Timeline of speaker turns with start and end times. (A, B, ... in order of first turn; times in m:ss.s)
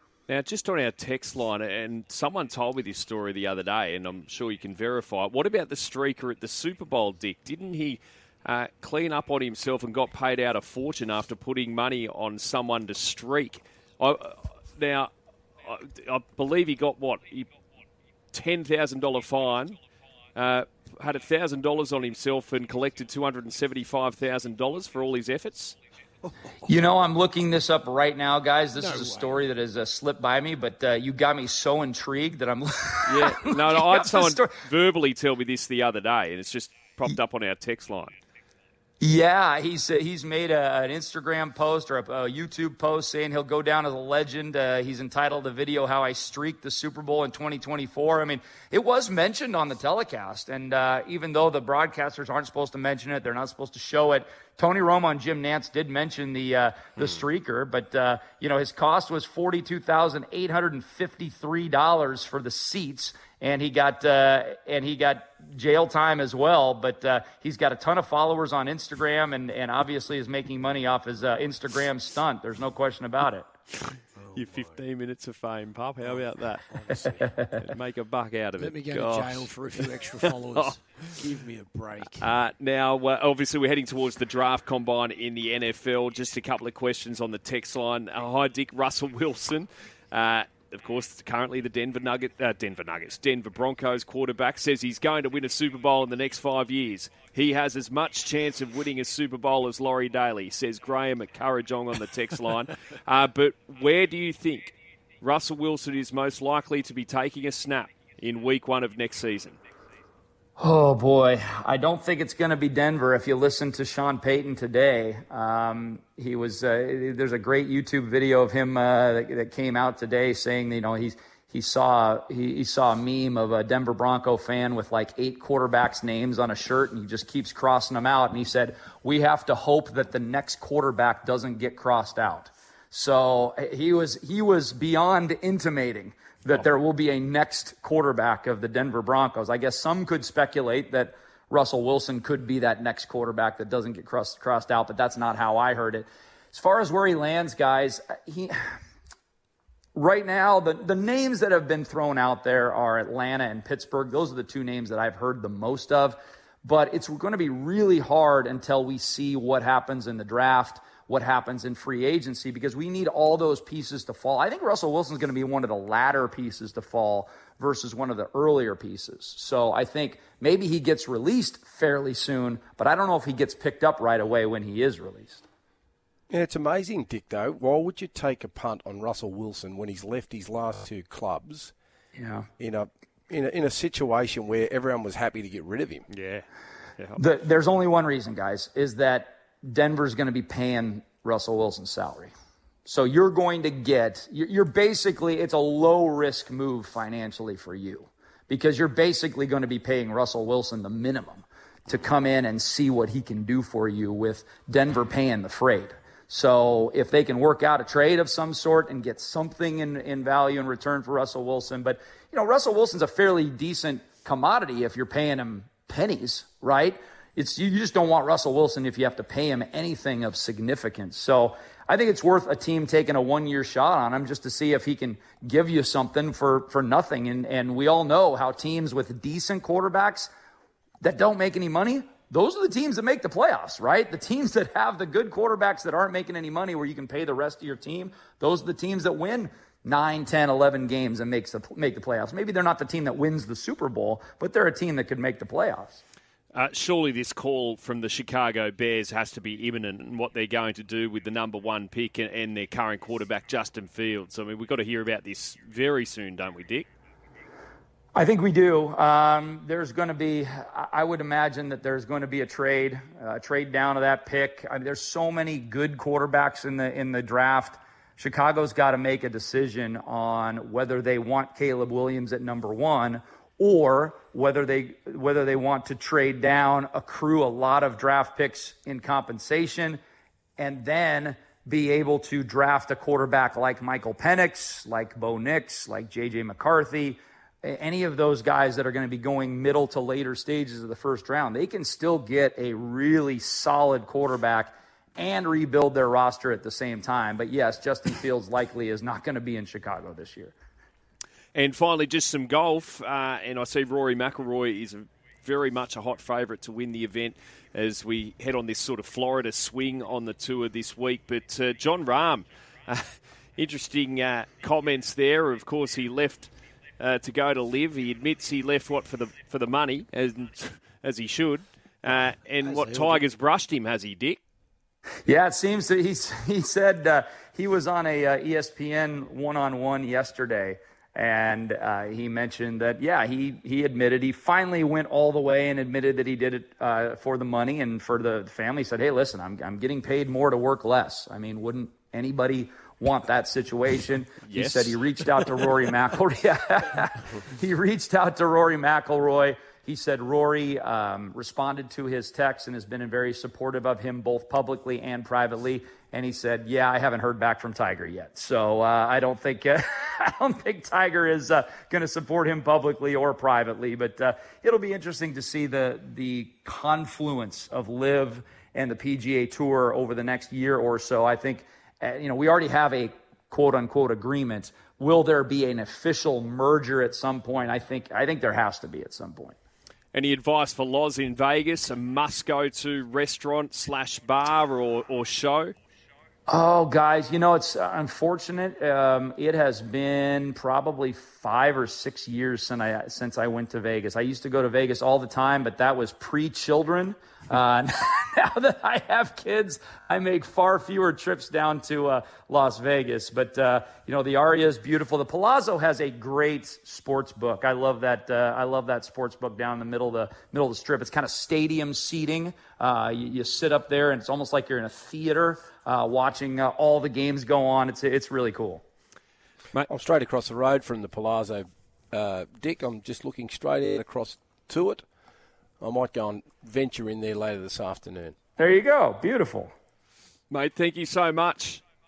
0:00.3-0:15.1 A
0:15.6-0:17.5 A
0:18.3-0:19.8 A
0:20.4-0:25.8 A
0:26.6-0:34.6 B
0:28.9-0:29.3 C
0:33.0-0:38.2 A
0:39.0-1:13.5 B
1:14.3-1:16.7 A
1:16.9-1:17.5 B
1:17.5-1:21.0 A
1:18.6-1:22.3 C
1:22.2-1:49.6 A
1:50.6-2:28.7 B
2:30.0-2:55.4 B
2:56.3-3:01.7 D
3:02.2-3:02.5 B
3:02.6-3:06.1 D
3:06.1-3:06.5 A
3:07.2-3:12.3 B
3:12.8-3:50.3 B
3:51.0-4:06.0 B
4:06.5-4:16.9 A
4:18.1-4:40.0 B
4:40.6-5:00.6 B
5:01.6-5:24.4 A
5:22.7-5:23.2 C
5:25.3-6:19.6 B
5:44.4-5:45.7 A
6:20.1-6:25.7 A
6:26.5-6:58.8 B
6:59.9-7:05.0 D
7:05.8-7:08.4 D
7:08.6-7:09.7 B
7:10.5-7:11.8 A